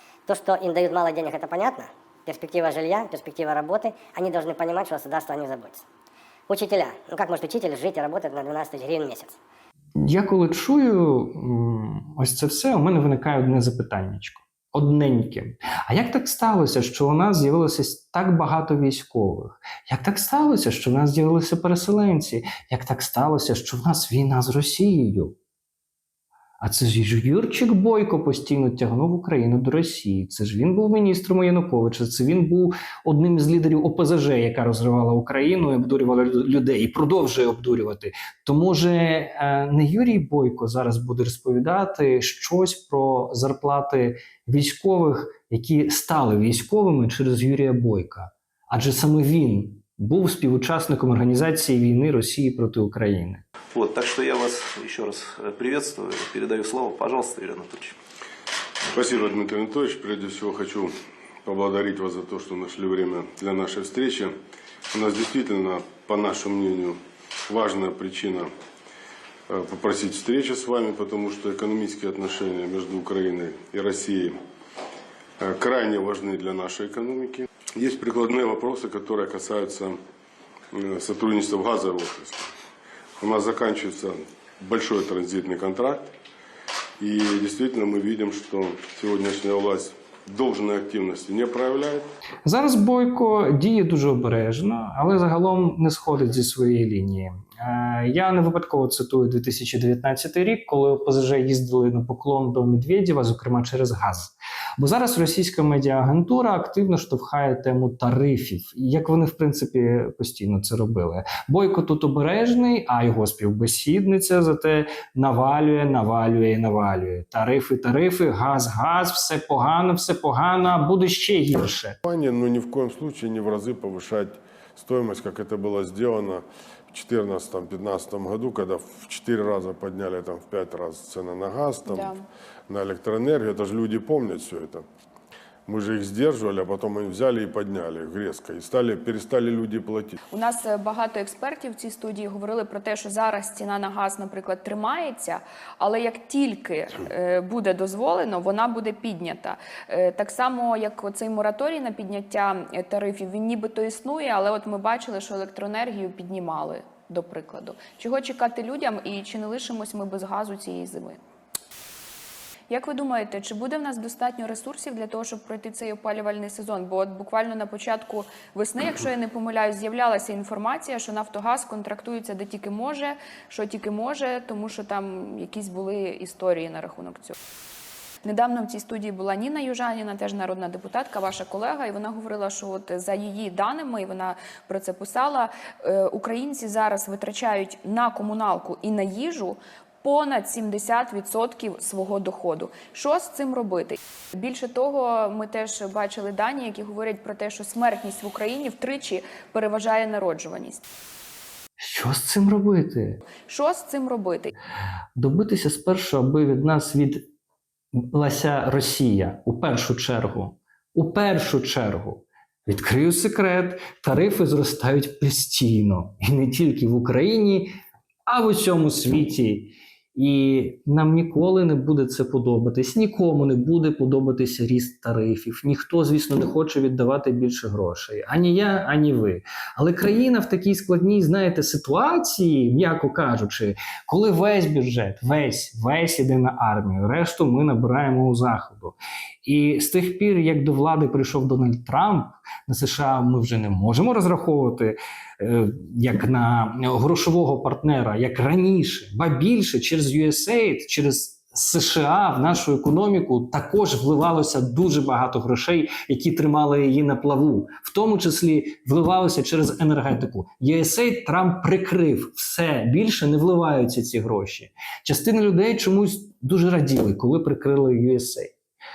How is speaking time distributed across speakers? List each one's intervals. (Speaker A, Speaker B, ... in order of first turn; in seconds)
Speaker A: 0.3-5.8, 6.5-9.4
Speaker B: 10.0-25.4, 26.6-53.4, 92.5-122.0, 201.8-203.2, 205.2-207.3, 207.9-217.7, 218.3-268.5
Speaker C: 53.7-58.0
Speaker D: 58.9-64.4, 64.9-68.5, 69.5-74.4, 75.4-80.0, 80.7-82.5, 83.2-86.1, 87.0-92.1, 122.0-132.2, 132.7-134.8, 135.7-140.2
Speaker E: 131.9-132.3, 140.3-161.2, 162.7-177.3, 178.2-200.8, 203.4-204.5